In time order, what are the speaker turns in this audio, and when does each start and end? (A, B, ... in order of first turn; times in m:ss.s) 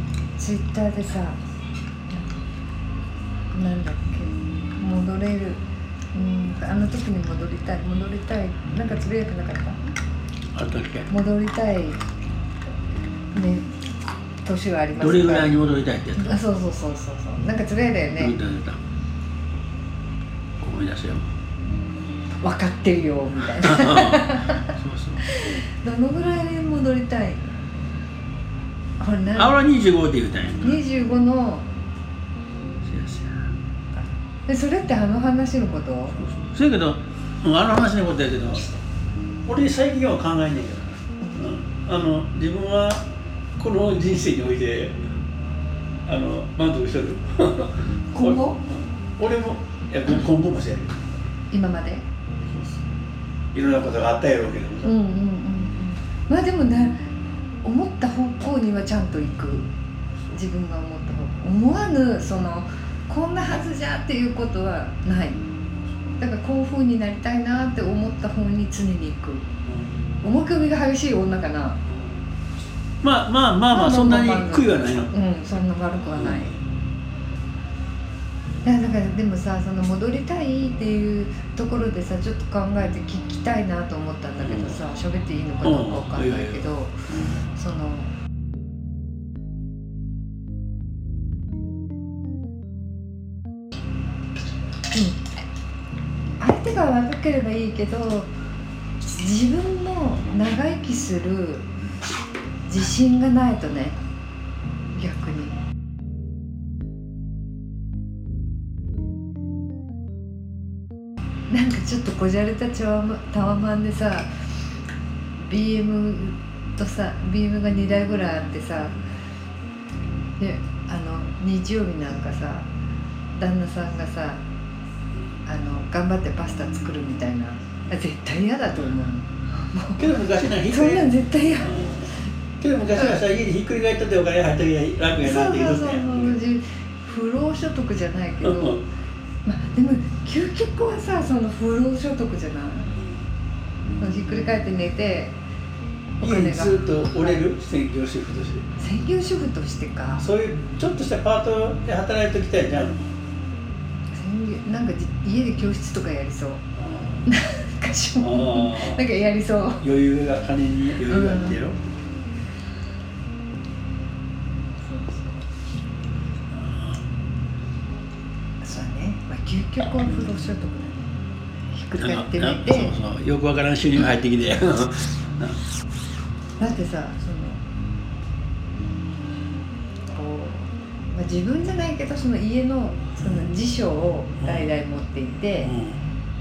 0:00.4-0:01.4 A
0:02.1-0:02.4 A
0:03.5-0:05.6 A
0:06.1-0:09.8 A
0:10.5-0:11.1 B
0:11.1-0:12.0 A
0:13.3-0:13.7 A
0:14.4-0:15.6 A
0:15.0-0:16.4 B
0:16.2-0:18.4 A
0:18.2-0:18.8 B
0:20.6-0:21.3 B
0:22.4-0:27.4 A
0:23.6-0:25.3 B
0:29.0-0:29.6 A
0:29.4-0:30.8 B
0:30.6-0:31.7 A
0:32.8-0:33.5 B
0:34.5-0:36.2 A
0:36.2-0:38.7 B
0:39.5-0:43.1 B
0:41.2-0:41.5 A
0:43.6-0:45.0 B
0:46.1-0:51.1 B
0:48.1-0:48.6 A
0:51.5-0:52.1 A
0:52.5-0:52.8 B
0:53.5-0:55.0 B
0:54.8-0:57.0 A
0:57.6-0:59.7 A
1:00.3-1:05.4 A
1:06.2-1:09.5 A
1:09.7-1:09.9 B
1:10.2-1:11.8 A
1:13.0-1:15.1 B
1:13.7-1:16.6 A
1:16.2-1:16.6 B
1:18.6-1:27.0 A
1:24.5-1:24.9 B
1:25.6-1:26.7 B
1:27.5-1:28.1 A
1:36.4-1:38.3 A
1:39.1-1:41.7 A
1:42.7-1:44.0 A
1:45.0-1:45.6 A
1:51.5-1:54.3 A
1:55.4-1:58.9 A
2:00.4-2:02.7 A
2:03.3-2:04.4 A
2:05.5-2:10.2 A
2:10.0-2:16.4 B
2:10.7-2:12.1 A
2:12.9-2:13.2 A
2:15.2-2:18.8 A
2:18.4-2:18.8 B
2:19.4-2:23.0 A
2:24.0-2:25.4 A
2:26.2-2:27.4 A
2:26.2-2:28.7 B
2:28.8-2:30.3 A
2:30.2-2:33.1 B
2:34.1-2:36.6 A
2:36.8-2:37.3 B
2:37.3-2:39.8 A
2:38.2-2:39.0 B
2:39.8-2:41.8 B
2:41.0-2:41.6 A
2:44.8-2:45.4 A
2:46.5-2:47.0 B
2:48.6-2:51.1 A
2:51.7-2:53.0 A
2:52.0-2:55.6 B
2:56.6-2:57.6 A
3:00.1-3:05.8 A
3:04.4-3:04.7 B
3:05.6-3:06.0 B